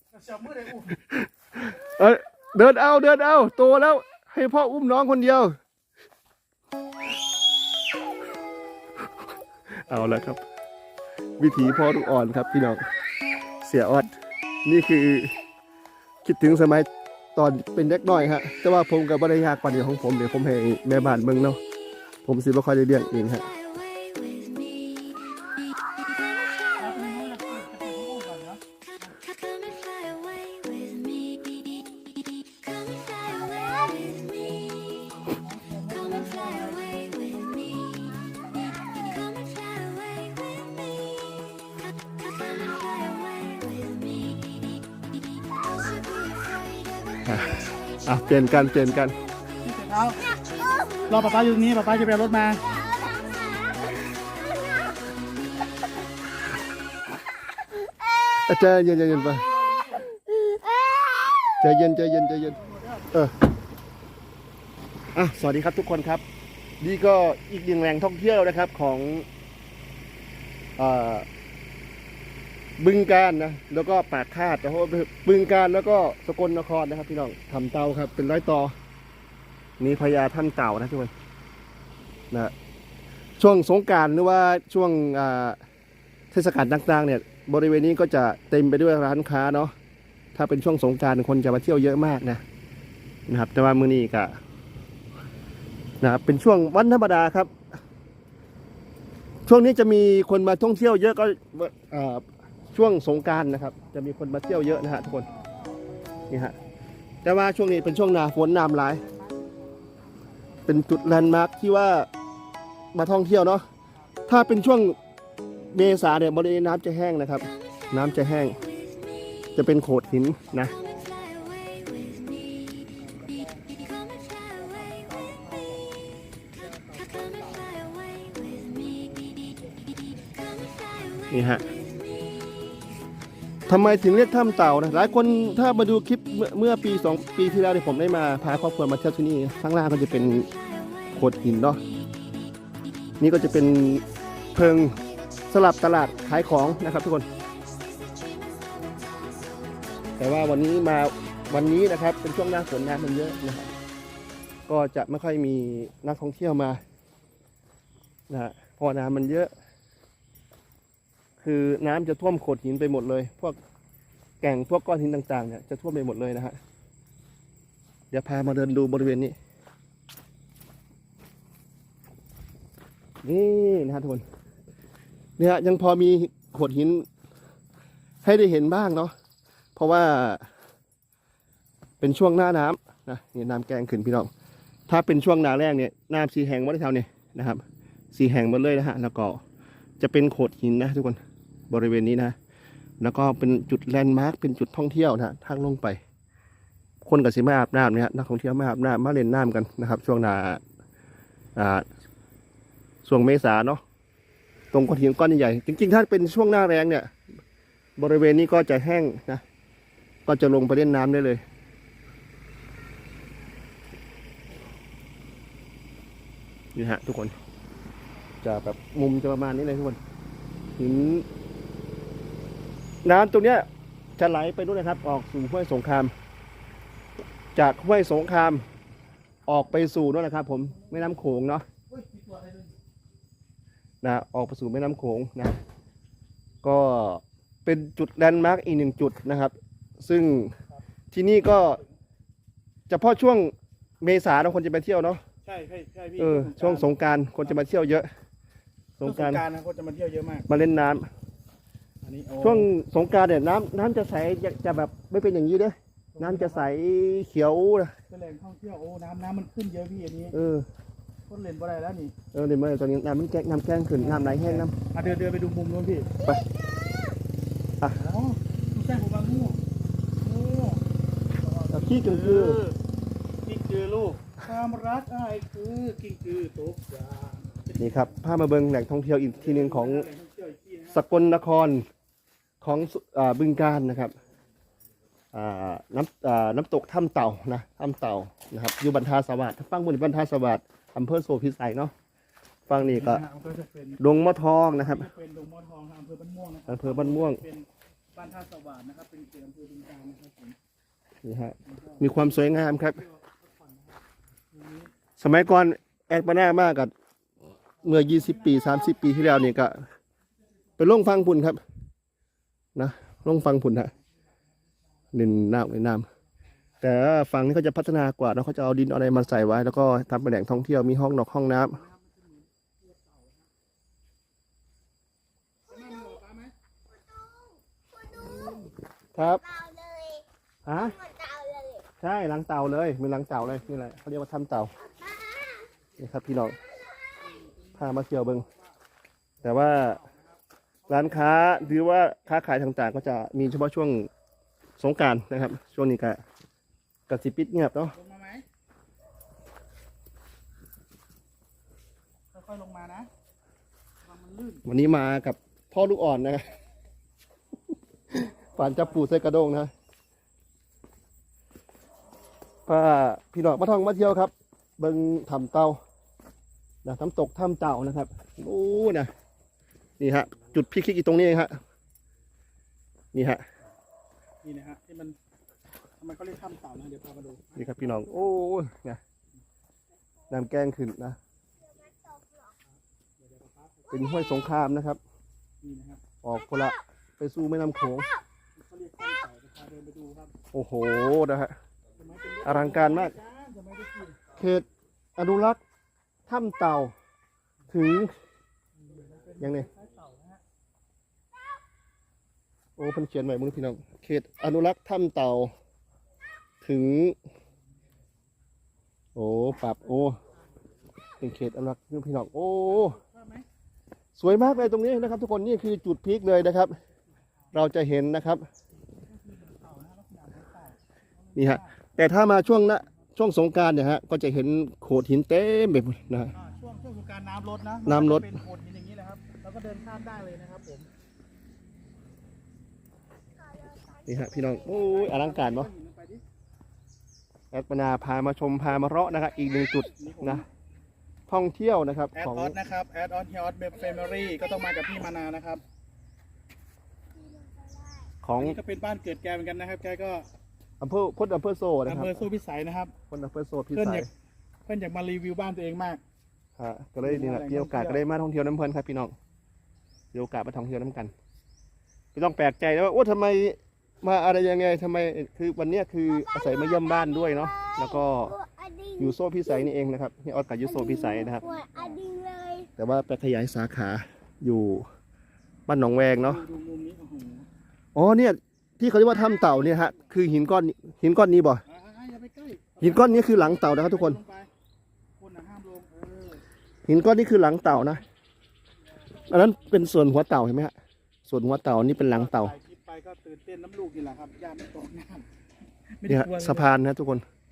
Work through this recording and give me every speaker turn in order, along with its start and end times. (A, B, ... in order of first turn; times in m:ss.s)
0:00.1-0:00.9 A
0:00.9-0:05.6 B
0:09.7-0:10.4 B
0:09.9-0:10.3 A
0:11.4-0:12.8 B
0:13.6-0:14.1 B
0:14.6-0:15.3 B
0:16.2-0:21.6 B
0:22.2-0:23.5 B
0:26.8-0:29.1 A
0:30.6-0:31.1 C
0:32.8-0:34.2 C
0:35.3-0:38.8 A
0:38.8-0:39.6 C
0:42.9-0:44.0 C
0:47.2-0:49.2 B
0:49.6-0:50.2 A
0:50.4-0:51.2 C
0:51.1-0:52.6 A
0:52.7-0:55.0 C
0:57.8-0:58.1 C
0:58.3-0:59.4 B
0:58.9-1:00.1 A
1:00.1-1:02.1 C
1:01.6-1:02.6 B
1:02.3-1:03.2 A
1:05.1-1:06.2 B
1:06.8-1:09.3 B
1:10.8-1:11.3 B
1:12.8-1:18.7 B
1:19.8-1:21.1 B
1:23.4-1:25.6 B
1:26.3-1:29.7 B
1:30.3-1:32.4 B
1:33.3-1:34.4 B
1:36.0-1:37.5 B
1:39.4-1:45.2 B
1:43.6-1:43.9 A
1:44.5-1:46.6 A
1:46.3-1:46.5 B
1:47.2-1:49.0 B
1:48.8-1:51.0 A
1:50.6-1:52.1 B
1:52.9-1:53.6 B
1:54.3-1:55.0 B
1:55.7-1:58.6 B
1:59.6-2:00.7 B
2:00.0-2:02.1 A
2:02.8-2:06.0 A
2:06.5-2:07.9 A
2:08.6-2:11.2 A
2:11.3-2:11.6 B
2:13.7-2:20.5 B
2:21.1-2:21.8 B
2:23.2-2:25.0 B
2:25.5-2:27.2 B
2:30.2-2:33.7 B
2:34.7-2:36.8 B
2:38.3-2:39.5 B
2:41.4-2:43.6 B
2:44.4-2:46.6 B
2:48.1-2:49.4 B
2:53.2-2:54.2 B
2:55.4-2:57.0 B
2:58.2-2:59.1 B
2:59.8-3:00.4 B
3:02.0-3:04.3 B
3:04.9-3:07.6 B
3:08.1-3:09.4 B
3:10.0-3:11.2 B
3:11.7-3:12.4 B
3:13.0-3:16.0 B
3:17.0-3:20.6 B
3:21.6-3:21.8 B
3:23.0-3:23.8 B
3:24.7-3:27.1 B
3:28.0-3:29.4 B
3:30.2-3:31.4 B
3:36.7-3:37.3 B
3:38.4-3:40.0 B
3:40.8-3:41.2 B
3:43.0-3:43.6 B
3:44.2-3:46.1 B
3:47.5-3:48.6 B
3:49.5-3:51.6 B
3:51.9-3:52.8 A
3:54.0-3:55.6 B
3:56.6-4:00.5 B
4:01.1-4:01.8 B
4:01.6-4:01.9 A
4:02.9-4:05.2 B
4:05.4-4:07.6 A
4:06.2-4:08.1 B
4:09.0-4:09.4 B
4:09.0-4:10.4 A
4:10.5-4:11.1 B
4:12.0-4:12.7 A
4:12.4-4:17.9 B
4:16.1-4:16.7 A
4:18.1-4:20.4 A
4:20.3-4:20.7 B
4:21.3-4:22.1 A
4:22.3-4:24.7 B
4:24.0-4:26.1 A
4:26.6-4:27.1 C
4:27.9-4:29.6 A
4:30.2-4:30.8 A
4:31.4-4:32.8 A
4:31.7-4:32.6 B
4:33.4-4:38.1 A
4:37.8-4:40.1 B
4:39.3-4:41.1 A
4:40.9-4:41.8 B
4:42.6-4:44.1 B
4:45.3-4:51.9 B
4:52.7-4:53.2 B
4:52.7-4:54.0 A
4:54.0-4:55.0 B
4:54.8-5:00.6 A
4:56.7-4:57.4 B
5:01.2-5:03.0 B
5:01.6-5:04.0 A
5:04.5-5:04.9 A
5:05.2-5:06.9 B
5:07.8-5:09.8 B
5:07.8-5:08.8 A
5:10.8-5:11.6 B
5:12.7-5:13.9 B
5:15.1-5:16.1 B
5:16.8-5:21.8 B
5:21.6-5:23.5 A
5:25.7-5:26.5 A
5:26.9-5:28.6 C
5:28.2-5:28.7 A
5:29.1-5:29.4 B
5:29.4-5:30.2 C
5:30.6-5:31.0 B
5:31.0-5:31.8 C
5:32.0-5:34.7 B
5:35.0-5:35.7 C
5:36.0-5:36.6 B
5:36.7-5:37.2 C
5:37.2-5:38.7 A
5:37.8-5:38.4 B
5:39.4-5:41.8 A
5:39.4-5:40.0 B
5:40.9-5:44.1 B
5:44.8-5:46.2 B
5:47.1-5:47.9 B
5:47.9-5:48.4 A
5:52.3-5:53.1 A
5:54.0-5:54.6 A
5:54.6-5:56.5 B
5:58.1-5:59.7 B
5:58.6-5:59.0 A
6:02.6-6:05.8 B
6:06.8-6:09.1 B
6:10.0-6:11.6 B
6:13.1-6:13.4 B
6:14.4-6:15.2 A
6:16.0-6:18.3 A
6:17.5-6:19.0 B
6:20.3-6:21.2 B
6:21.6-6:22.5 C
6:23.2-6:24.0 A
6:23.9-6:25.0 B
6:25.6-6:26.0 A
6:26.2-6:28.1 B
6:28.6-6:30.3 A
6:30.5-6:31.5 B
6:32.0-6:34.2 A
6:32.4-6:33.1 B
6:34.4-6:34.6 B
6:35.2-6:35.6 B
6:36.3-6:36.9 B
6:37.7-6:38.1 B
6:38.8-6:40.4 A
6:39.4-6:39.7 B
6:42.8-6:45.5 B
6:46.6-6:47.2 B
6:49.1-6:50.2 B
6:51.2-6:53.0 B
6:52.7-6:53.4 A
6:54.2-6:56.8 B
6:57.5-6:58.4 B
6:58.9-7:01.8 A
7:01.4-7:06.3 B
7:06.3-7:10.9 A
7:07.8-7:08.3 B
7:13.4-7:14.7 C
7:14.0-7:15.7 B
7:14.6-7:16.2 A
7:17.5-7:20.4 B
7:20.0-7:20.4 A
7:21.3-7:22.6 B
7:22.1-7:25.6 A
7:27.2-7:28.1 C
7:28.2-7:28.6 B
7:28.3-7:30.2 A
7:30.8-7:32.2 B
7:31.8-7:32.9 A
7:33.1-7:34.1 B
7:33.7-7:34.0 A
7:34.6-7:36.0 A
7:36.6-7:39.1 B
7:37.0-7:38.0 A
7:40.1-7:41.1 B
7:42.1-7:48.4 B
7:46.1-7:49.5 C
7:49.0-7:51.5 B
7:50.6-7:52.7 C
7:51.6-7:51.8 A
7:52.8-7:54.8 B
7:55.7-7:56.4 B
7:56.2-7:57.4 A
7:57.9-8:01.6 B
8:01.6-8:04.5 A
8:02.8-8:04.2 B
8:05.2-8:06.4 A
8:06.8-8:08.0 B
8:09.3-8:10.7 B
8:11.2-8:12.5 B
8:11.9-8:15.2 A
8:16.0-8:16.7 A
8:16.0-8:17.2 B